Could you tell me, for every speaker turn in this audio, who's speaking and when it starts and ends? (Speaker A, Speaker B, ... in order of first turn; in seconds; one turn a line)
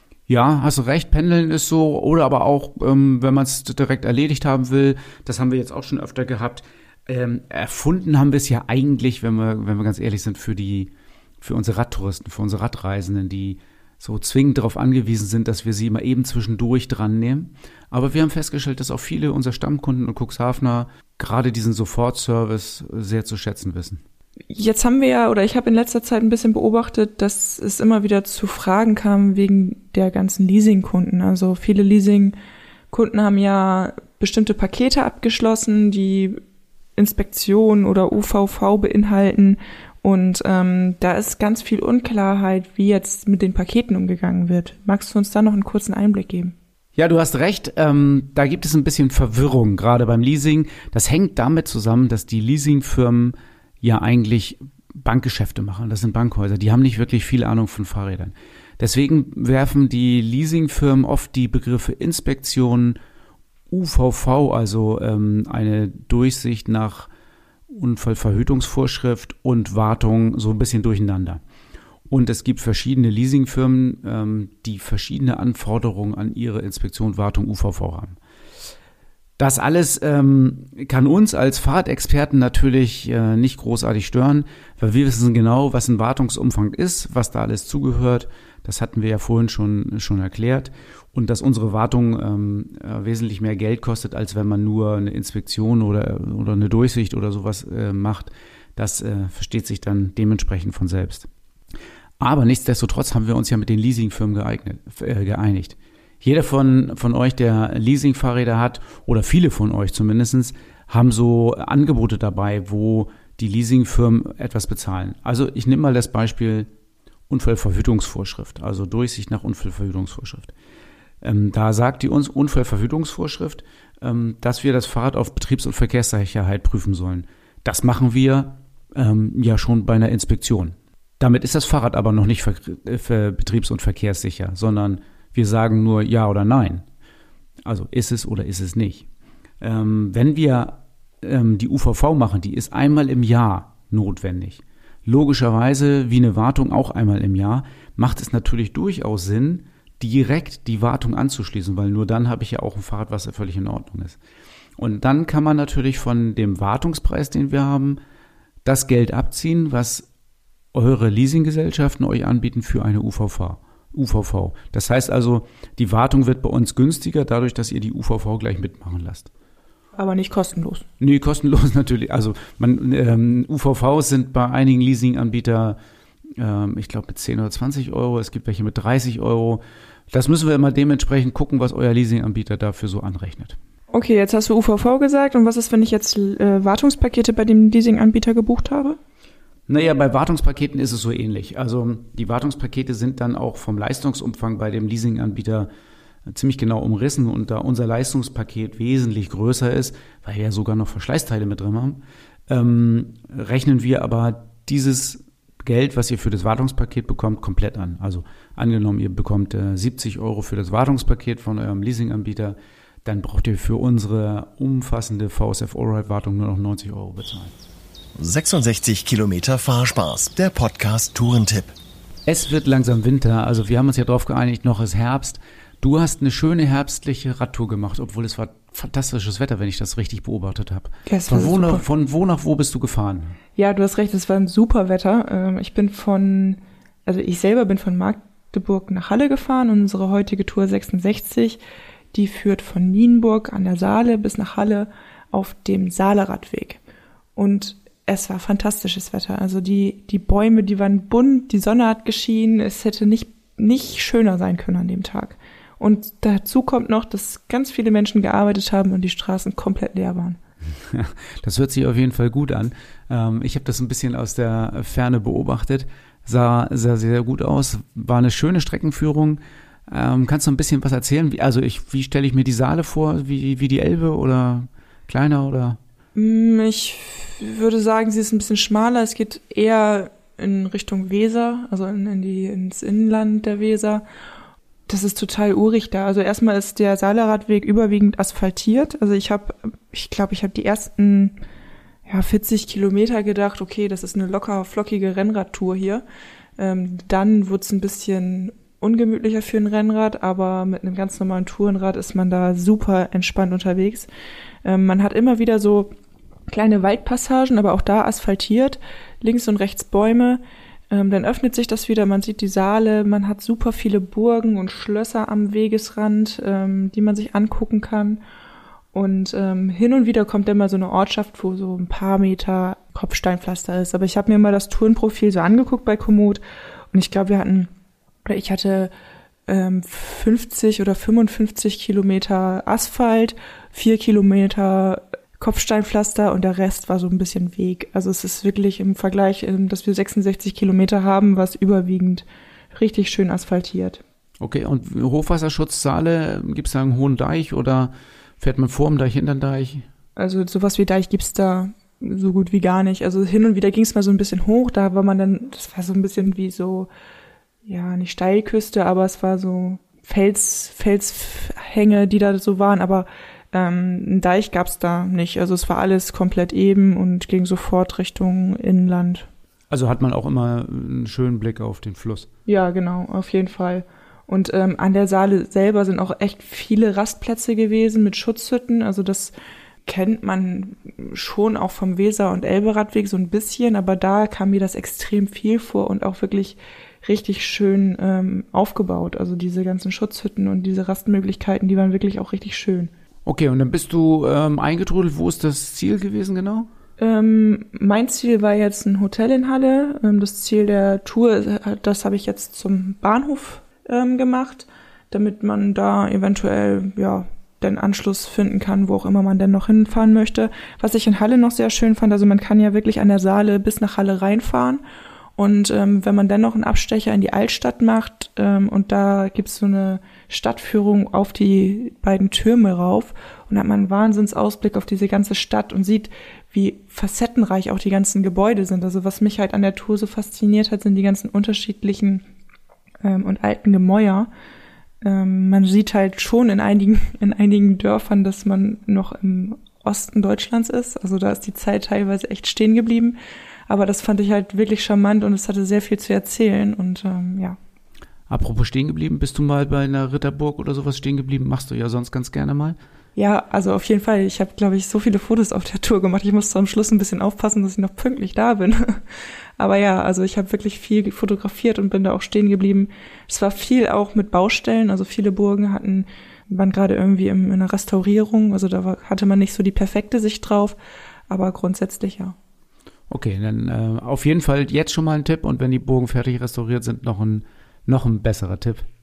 Speaker A: 0.3-24.0
Speaker B: 24.5-32.3
Speaker B: 32.9-36.4
Speaker B: 37.0-46.5
Speaker A: 47.0-63.0
Speaker A: 63.7-67.1
Speaker A: 67.7-71.4
Speaker A: 72.1-78.2
Speaker A: 79.4-101.3
Speaker A: 102.2-116.7
Speaker A: 117.3-120.5
Speaker A: 121.2-136.8
Speaker A: 137.6-139.1
Speaker A: 139.6-154.2
Speaker A: 154.8-158.0
Speaker A: 158.6-160.1
Speaker A: 160.7-169.3
Speaker B: 169.9-170.8
Speaker A: 171.0-175.8
Speaker A: 176.4-183.6
Speaker B: 183.9-189.0
Speaker A: 189.7-195.7
Speaker A: 196.2-217.5
Speaker C: 218.2-221.7
Speaker A: 222.2-233.3
Speaker B: 231.1-231.8
Speaker B: 233.6-241.6
Speaker B: 242.1-246.8
Speaker B: 247.3-260.4
Speaker A: 260.8-275.8
Speaker B: 276.1-284.0
Speaker B: 284.9-291.4
Speaker B: 292.1-296.0
Speaker B: 296.6-304.1
Speaker B: 304.6-305.9
Speaker B: 306.5-318.2
Speaker B: 318.9-326.4
Speaker B: 326.9-327.7
Speaker B: 328.2-328.9
Speaker B: 329.5-344.0
Speaker A: 344.4-349.9
Speaker B: 350.1-356.9
Speaker B: 357.6-369.3
Speaker A: 369.7-372.3
Speaker B: 372.5-379.3
Speaker B: 379.9-392.9
Speaker A: 393.2-396.7
Speaker B: 397.0-414.8
Speaker B: 415.4-432.2
Speaker B: 433.0-434.3
Speaker B: 435.0-443.2
Speaker B: 443.7-447.6
Speaker A: 448.3-452.8
Speaker B: 453.1-459.0
Speaker B: 459.6-470.8
Speaker B: 471.3-472.4
Speaker A: 473.1-478.9